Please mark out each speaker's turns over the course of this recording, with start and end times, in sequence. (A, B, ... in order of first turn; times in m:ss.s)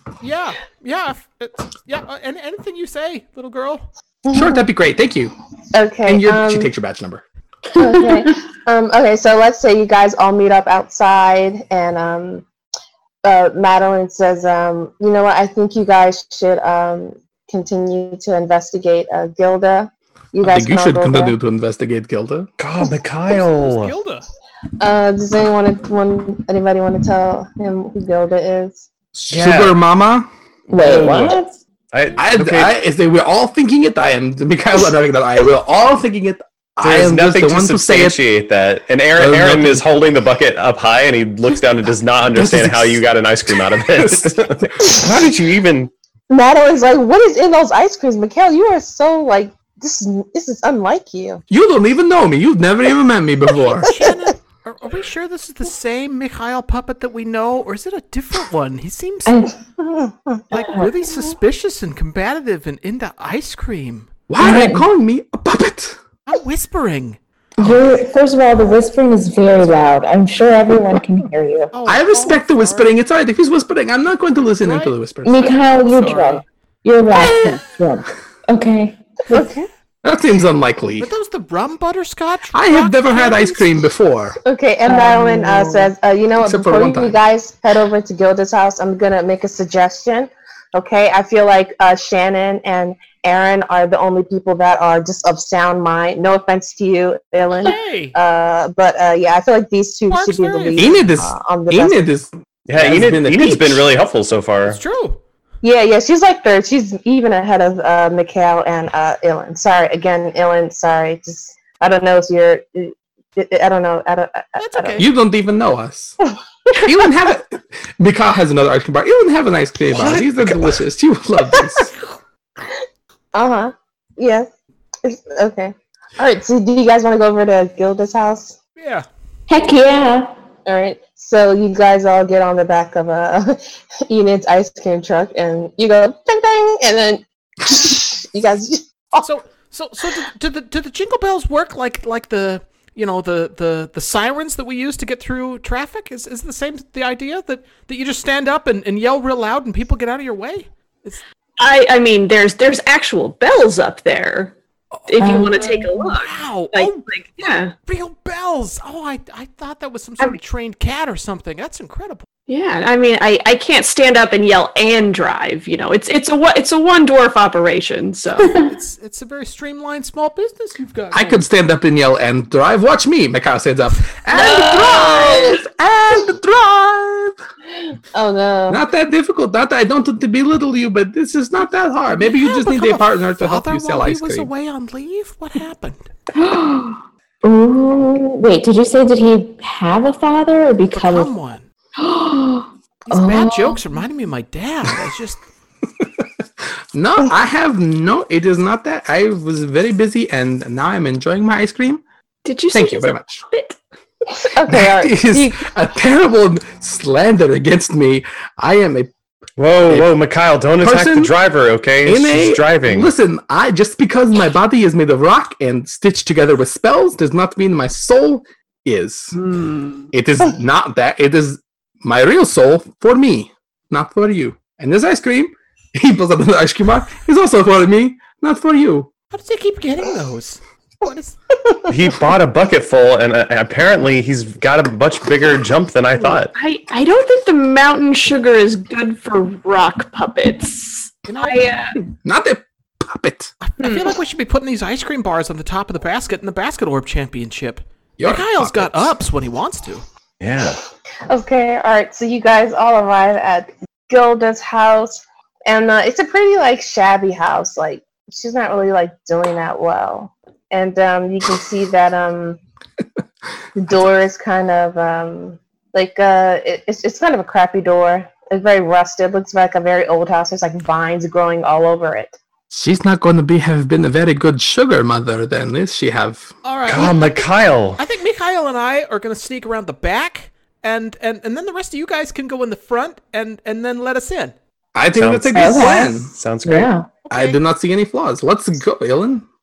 0:00.2-0:03.8 A
0:04.2-0:04.6 B
0:04.3-0:05.3 C
0:05.7-0:06.7 B
0:06.0-0:07.2 C
0:07.8-0:12.4 B
0:07.8-0:08.2 D
0:13.2-0:21.4 B
0:20.4-0:22.5 C
0:22.6-0:23.9 E
0:23.3-0:24.2 A
0:24.8-0:28.9 B
0:29.1-0:30.3 C
0:29.3-0:29.8 E
0:30.7-0:31.6 D
0:30.7-0:31.3 E
0:30.8-0:31.3 C
0:31.9-0:32.8 E
0:32.2-0:38.2 C
0:36.8-0:45.9 E
0:39.2-0:39.9 C
0:42.3-0:44.7 C
0:46.3-0:51.4 B
0:51.5-0:54.0 C
0:53.8-0:59.5 A
0:59.2-0:59.5 D
1:00.5-1:04.1 A
1:00.6-1:00.9 D
1:04.3-1:06.0 C
1:04.4-1:04.9 D
1:06.3-1:07.2 A
1:07.6-1:11.7 D
1:11.7-1:12.9 A
1:11.8-1:15.5 C
1:14.6-1:16.4 A
1:15.2-1:19.5 D
1:19.3-1:19.7 B
1:20.0-1:21.1 C
1:21.0-1:23.7 A
1:22.5-1:24.4 C
1:24.4-1:42.1 B
1:24.9-1:25.9 D
1:26.4-1:27.2 C
1:37.6-1:38.1 A
1:40.1-1:41.0 A
1:40.8-1:43.8 C
1:42.7-1:44.8 E
1:44.6-1:45.2 A
1:45.6-1:55.0 B
1:54.6-1:55.1 A
1:55.0-1:56.2 C
1:56.8-2:01.9 C
2:03.3-2:04.5 B
2:05.0-2:08.6 B
2:08.8-2:09.0 A
2:09.5-2:10.3 D
2:10.6-2:19.3 B
2:19.2-2:31.2 A
2:31.6-2:34.5 F
2:35.1-2:37.7 F
2:35.1-2:37.1 A
2:35.2-2:35.8 D
2:37.8-2:42.3 A
2:42.5-2:48.6 F
2:48.5-2:51.4 A
2:51.1-2:57.4 C
2:54.3-2:54.7 A
2:54.4-2:55.5 F
2:58.1-2:58.8 B
2:58.7-3:04.5 C
3:02.2-3:06.1 A
3:06.3-3:11.3 D
3:10.9-3:11.6 A
3:12.0-3:13.8 D
3:13.1-3:15.4 A
3:16.2-3:22.0 C
3:22.4-3:23.8 F
3:22.7-3:23.4 C
3:24.4-3:25.7 B
3:24.7-3:29.1 C
3:29.6-3:33.1 E
3:29.8-3:30.1 C
3:30.8-3:31.3 C
3:32.0-3:39.4 C
3:39.4-3:40.1 F
3:40.1-3:49.1 C
3:49.3-3:51.4 A
3:51.9-3:56.5 E
3:56.3-4:02.0 F
4:01.3-4:01.7 A
4:02.2-4:03.5 C
4:03.6-4:10.0 A
4:03.8-4:04.2 F
4:08.2-4:09.1 C
4:10.4-4:10.8 E
4:11.3-4:22.6 B
4:23.8-4:32.4 B
4:32.7-4:36.5 C
4:36.6-4:37.4 A
4:36.9-4:38.0 E
4:38.0-4:44.5 A
4:44.9-4:46.3 C
4:45.1-4:46.9 E
4:45.5-4:47.1 D
4:47.3-4:47.6 A
4:47.3-4:49.4 C